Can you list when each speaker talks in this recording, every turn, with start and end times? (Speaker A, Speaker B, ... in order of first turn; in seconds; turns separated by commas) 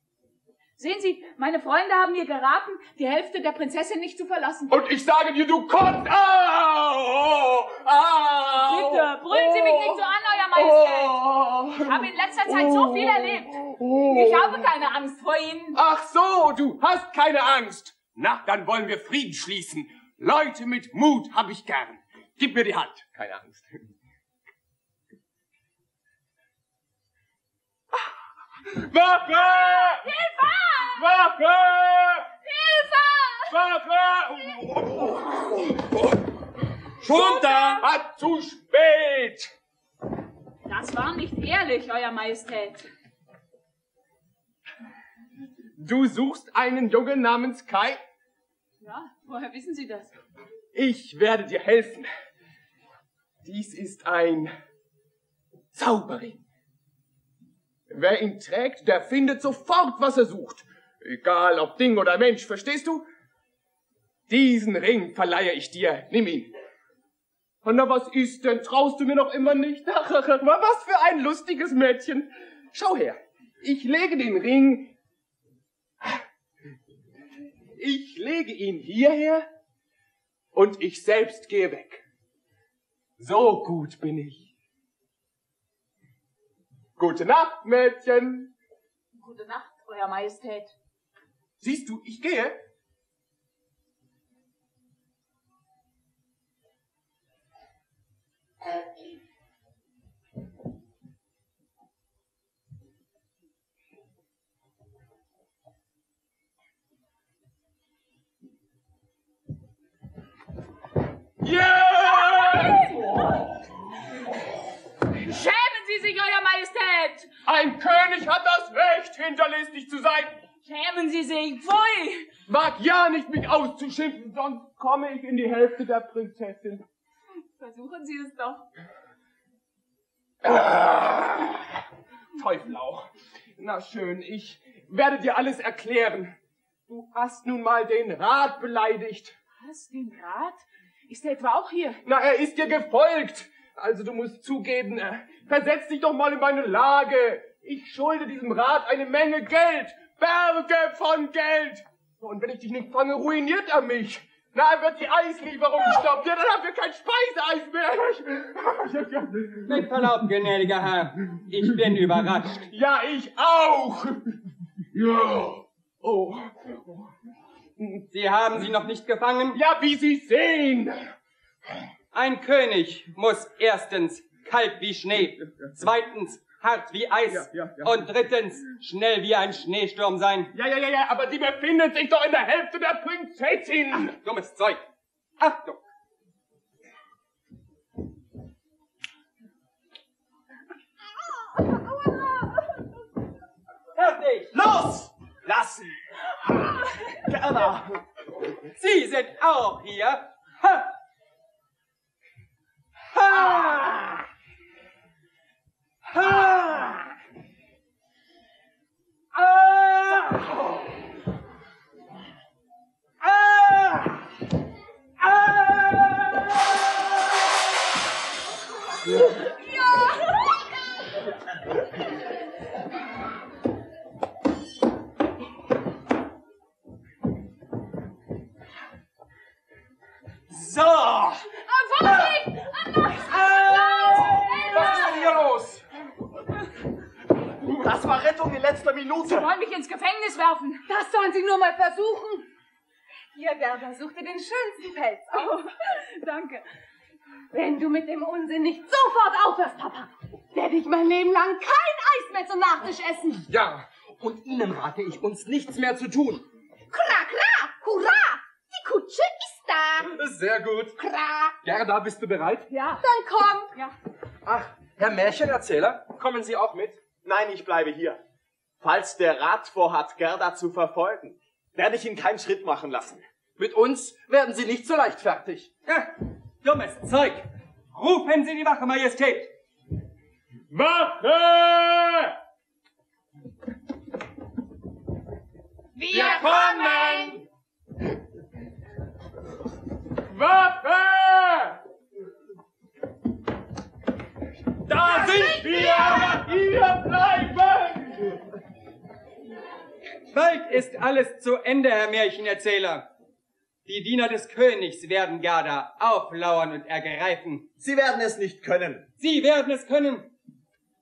Speaker A: 0.8-4.8, Speaker B: 4.7-10.0, Speaker A: 8.6-15.8, Speaker B: 10.6-14.7, Speaker B: 15.8-23.9, Speaker B: 28.7-30.1, Speaker A: 29.3-31.3, Speaker B: 31.0-32.3, Speaker A: 32.4-33.5, Speaker B: 33.5-36.2, Speaker B: 37.0-39.5, Speaker A: 37.0-37.9, Speaker A: 40.7-42.9, Speaker B: 45.8-48.0, Speaker A: 48.8-50.1, Speaker B: 50.7-52.1, Speaker B: 53.4-54.5, Speaker B: 55.7-56.4, Speaker B: 57.9-63.0, Speaker B: 64.3-66.5, Speaker B: 67.6-74.9, Speaker B: 77.8-79.5, Speaker B: 80.5-82.0, Speaker B: 83.2-84.5, Speaker B: 87.0-88.5, Speaker A: 89.2-90.8, Speaker B: 91.6-92.6, Speaker B: 111.4-113.4, Speaker A: 112.1-113.4, Speaker A: 115.1-117.3, Speaker B: 117.5-120.4, Speaker A: 120.6-122.3, Speaker B: 122.5-126.8, Speaker A: 127.6-128.7, Speaker B: 130.4-131.6, Speaker B: 132.4-136.3, Speaker B: 136.9-139.3, Speaker A: 139.6-142.0, Speaker B: 142.1-159.9, Speaker C: 159.6-162.6, Speaker B: 162.5-164.2, Speaker B: 164.9-167.0, Speaker C: 168.1-169.6, Speaker B: 169.5-171.1, Speaker C: 172.1-180.5, Speaker B: 177.3-178.1, Speaker B: 180.5-184.1, Speaker C: 183.9-184.8, Speaker C: 185.4-185.8, Speaker C: 193.9-194.5, Speaker D: 194.5-198.0, Speaker C: 198.8-200.9, Speaker C: 203.1-204.3, Speaker C: 206.1-207.1, Speaker C: 209.3-210.8, Speaker C: 213.2-214.2, Speaker C: 215.2-216.6, Speaker E: 230.6-231.4, Speaker A: 231.6-235.3, Speaker E: 232.0-232.4, Speaker E: 233.3-235.8, Speaker D: 237.6-239.5, Speaker A: 239.3-240.8, Speaker F: 240.9-242.5, Speaker F: 243.3-245.6, Speaker A: 245.3-246.7, Speaker F: 247.5-253.5, Speaker E: 253.5-256.4, Speaker G: 256.9-260.1, Speaker E: 260.0-261.0, Speaker G: 261.0-261.6, Speaker E: 261.6-262.7, Speaker A: 262.7-263.0, Speaker F: 263.0-263.7, Speaker E: 264.4-267.0, Speaker D: 267.2-268.2, Speaker D: 268.8-273.2, Speaker E: 273.6-275.7, Speaker C: 275.9-279.5, Speaker B: 280.7-282.4, Speaker G: 286.0-287.4, Speaker B: 286.1-287.4, Speaker B: 290.3-291.8, Speaker B: 294.9-298.4, Speaker G: 295.7-296.1, Speaker C: 300.3-303.1, Speaker C: 303.9-307.7, Speaker D: 307.8-309.1, Speaker C: 309.2-310.3